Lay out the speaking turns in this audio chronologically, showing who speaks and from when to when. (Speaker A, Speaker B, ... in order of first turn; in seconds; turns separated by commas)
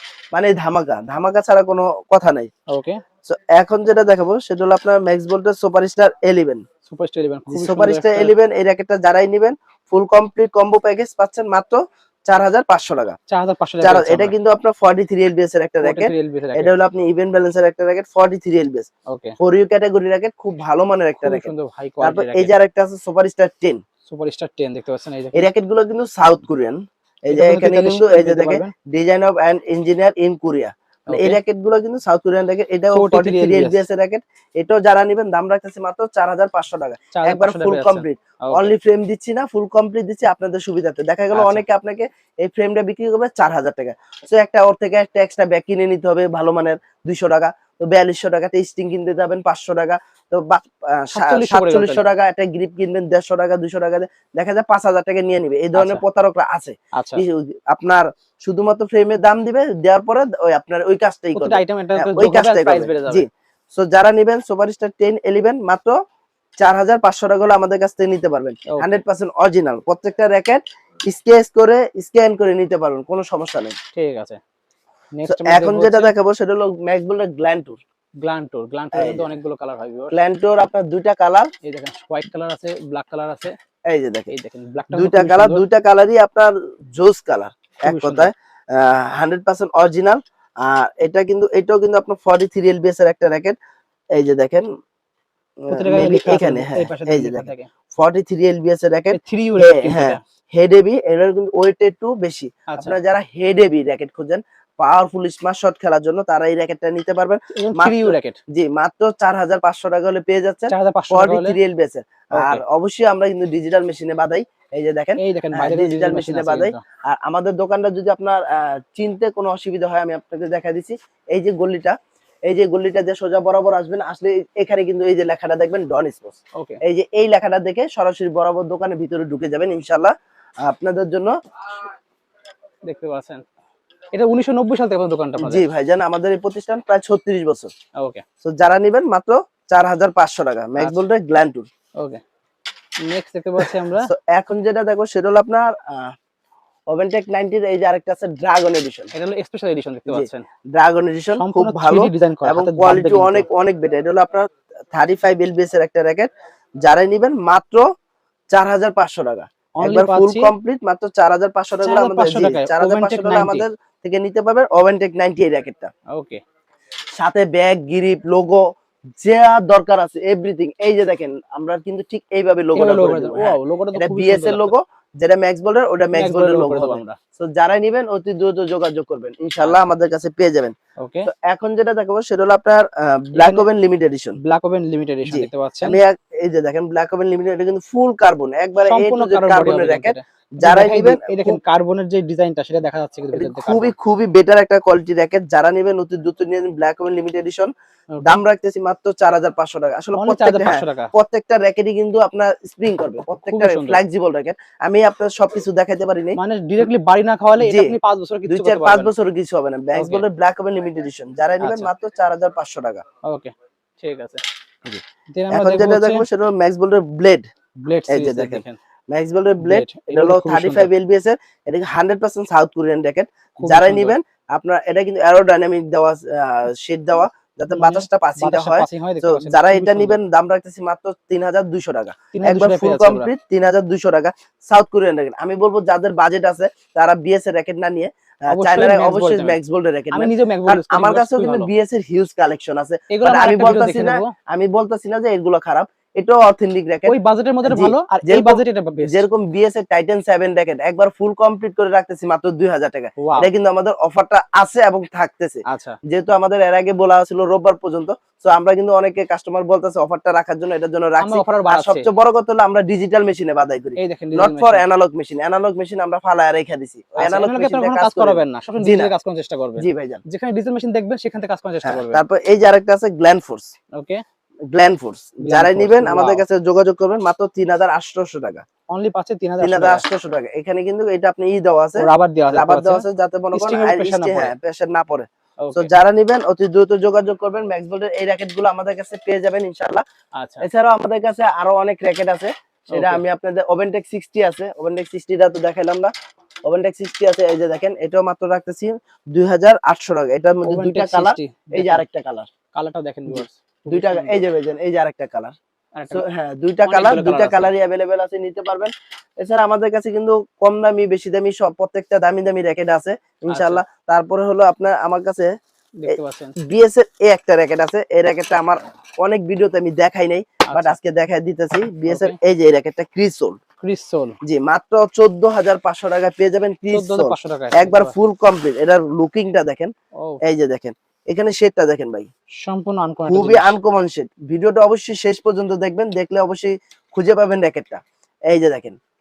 Speaker A: 0.3-2.5, Speaker B: 2.7-3.0, Speaker A: 3.3-6.6, Speaker B: 6.9-8.3, Speaker A: 7.5-13.2, Speaker B: 13.3-14.3, Speaker A: 13.8-18.9, Speaker B: 15.8-16.8, Speaker B: 19.1-19.4, Speaker A: 19.4-23.8, Speaker B: 21.2-22.5, Speaker B: 24.1-25.5, Speaker A: 25.4-66.0, Speaker B: 27.3-28.7, Speaker B: 31.1-31.4, Speaker B: 32.9-33.9, Speaker B: 37.1-38.7, Speaker B: 41.3-41.6, Speaker B: 51.1-52.1, Speaker B: 55.7-56.0, Speaker B: 56.9-57.2, Speaker B: 61.4-63.3, Speaker A: 66.6-73.8, Speaker B: 68.7-69.0, Speaker B: 74.0-74.4, Speaker B: 75.1-76.1, Speaker A: 75.2-77.8, Speaker B: 78.2-80.2, Speaker A: 78.9-79.3, Speaker A: 80.1-81.5, Speaker B: 81.7-83.5, Speaker A: 83.9-84.3, Speaker B: 84.3-85.6, Speaker A: 84.9-93.6, Speaker B: 87.8-88.3, Speaker A: 94.2-94.7, Speaker A: 95.6-131.3, Speaker B: 95.7-97.7, Speaker B: 99.1-100.2, Speaker B: 102.7-103.0, Speaker B: 107.5-108.4, Speaker B: 110.7-111.6, Speaker B: 112.3-112.6, Speaker B: 115.2-116.8, Speaker B: 132.9-133.4, Speaker B: 134.1-135.6, Speaker A: 135.4-137.7, Speaker B: 138.0-138.2, Speaker A: 138.4-141.7, Speaker B: 143.1-144.1, Speaker A: 143.8-146.1, Speaker A: 146.9-149.1, Speaker B: 149.1-150.4, Speaker A: 150.1-156.3, Speaker B: 151.4-153.5, Speaker A: 156.8-157.8, Speaker A: 158.5-165.9, Speaker B: 159.8-160.5, Speaker B: 161.8-163.7, Speaker B: 166.1-166.4, Speaker A: 167.2-168.6, Speaker A: 169.2-184.4, Speaker B: 172.8-174.7, Speaker B: 176.1-177.2, Speaker B: 181.0-181.3, Speaker B: 183.3-183.7, Speaker B: 184.4-186.0, Speaker A: 185.3-191.6, Speaker B: 188.8-193.9, Speaker A: 193.3-197.7, Speaker A: 198.2-206.8, Speaker B: 200.1-201.1, Speaker B: 203.3-204.0, Speaker B: 206.4-209.1, Speaker A: 207.6-208.0, Speaker A: 208.5-213.0, Speaker B: 209.9-210.2, Speaker B: 211.6-211.9, Speaker B: 213.3-214.4, Speaker A: 214.8-217.4, Speaker B: 215.3-216.3, Speaker B: 217.8-218.8, Speaker A: 218.1-269.1, Speaker B: 219.6-220.9, Speaker B: 223.6-224.2, Speaker B: 227.7-230.2, Speaker B: 232.3-233.3, Speaker B: 238.5-239.6, Speaker B: 240.1-241.7, Speaker B: 243.1-244.3, Speaker B: 247.1-249.3, Speaker B: 253.2-253.5, Speaker B: 255.7-256.0, Speaker B: 261.2-262.1, Speaker B: 264.0-264.9, Speaker B: 267.2-272.2, Speaker A: 269.8-270.2, Speaker A: 271.9-273.7, Speaker B: 273.9-274.2, Speaker A: 274.7-278.6, Speaker B: 275.4-276.4, Speaker B: 278.9-280.0, Speaker A: 279.6-290.0, Speaker B: 282.0-284.5, Speaker B: 285.6-285.9, Speaker B: 290.4-290.7, Speaker A: 290.6-296.1, Speaker B: 292.9-293.2, Speaker A: 296.7-302.5, Speaker B: 300.6-302.0, Speaker B: 302.8-304.4, Speaker A: 303.3-305.6, Speaker B: 306.0-306.3, Speaker A: 306.1-315.5, Speaker B: 306.9-307.7, Speaker B: 313.5-313.8, Speaker B: 316.0-316.6, Speaker A: 316.1-323.6, Speaker B: 320.7-321.0, Speaker B: 322.1-322.4, Speaker B: 323.8-324.4, Speaker A: 324.4-329.9, Speaker B: 326.9-328.1, Speaker A: 330.4-332.3, Speaker B: 332.6-333.8, Speaker A: 333.3-339.0